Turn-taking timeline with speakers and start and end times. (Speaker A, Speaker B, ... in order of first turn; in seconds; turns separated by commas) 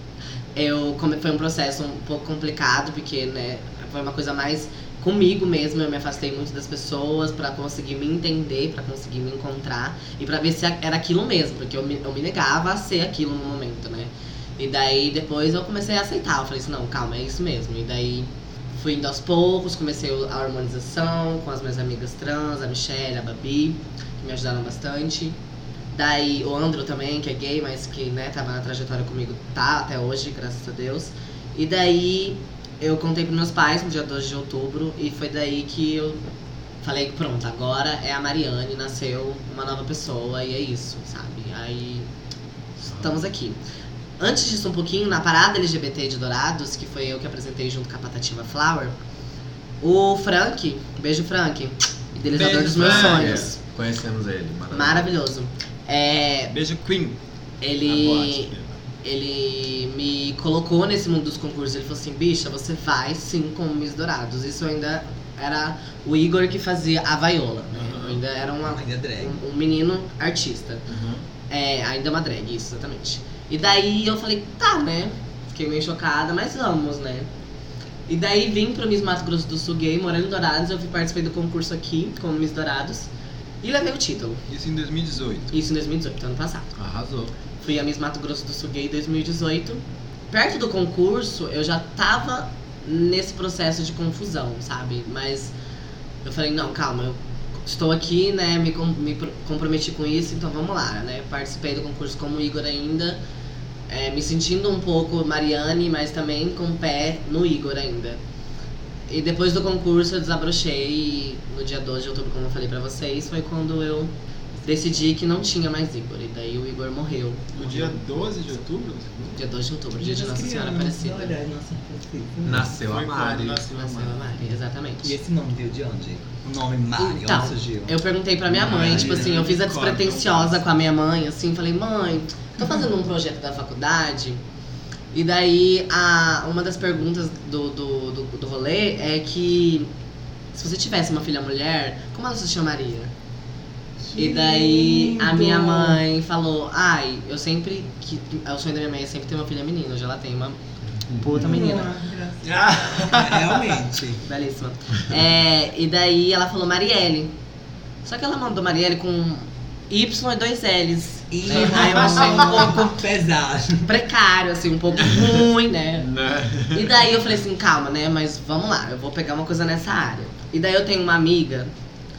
Speaker A: 0.5-25.4, Speaker A: 25.9-36.2, Speaker A: 36.8-42.1, Speaker A: 42.8-43.6, Speaker A: 44.2-48.9, Speaker A: 49.8-53.6, Speaker B: 52.3-53.5, Speaker C: 52.4-55.1, Speaker A: 54.7-56.5, Speaker B: 56.5-57.2, Speaker A: 57.6-58.5, Speaker B: 57.8-58.7, Speaker A: 59.0-70.8, Speaker B: 67.8-68.2, Speaker D: 68.6-69.4, Speaker B: 70.9-71.2, Speaker A: 71.5-77.3, Speaker A: 78.1-83.1, Speaker A: 83.6-84.4, Speaker B: 84.5-85.5, Speaker A: 85.5-86.7, Speaker C: 86.8-87.3, Speaker A: 87.6-95.5, Speaker A: 96.2-103.2, Speaker A: 103.9-108.2, Speaker A: 109.1-114.1, Speaker A: 114.6-118.0, Speaker B: 117.5-119.4, Speaker A: 119.3-121.3, Speaker D: 120.0-122.7, Speaker C: 122.4-124.1, Speaker B: 122.7-124.0, Speaker A: 123.7-125.1, Speaker D: 125.0-127.9, Speaker A: 127.0-134.4, Speaker B: 128.5-130.6, Speaker D: 128.8-129.2, Speaker A: 135.1-139.9, Speaker A: 140.5-143.1, Speaker D: 144.1-146.0, Speaker A: 144.2-150.6, Speaker C: 151.1-151.5, Speaker A: 151.1-151.9, Speaker D: 151.3-154.2, Speaker B: 152.4-153.7, Speaker A: 154.2-157.3, Speaker A: 158.0-162.9, Speaker D: 161.3-163.9, Speaker A: 163.8-166.1, Speaker C: 166.0-166.9, Speaker A: 166.7-171.7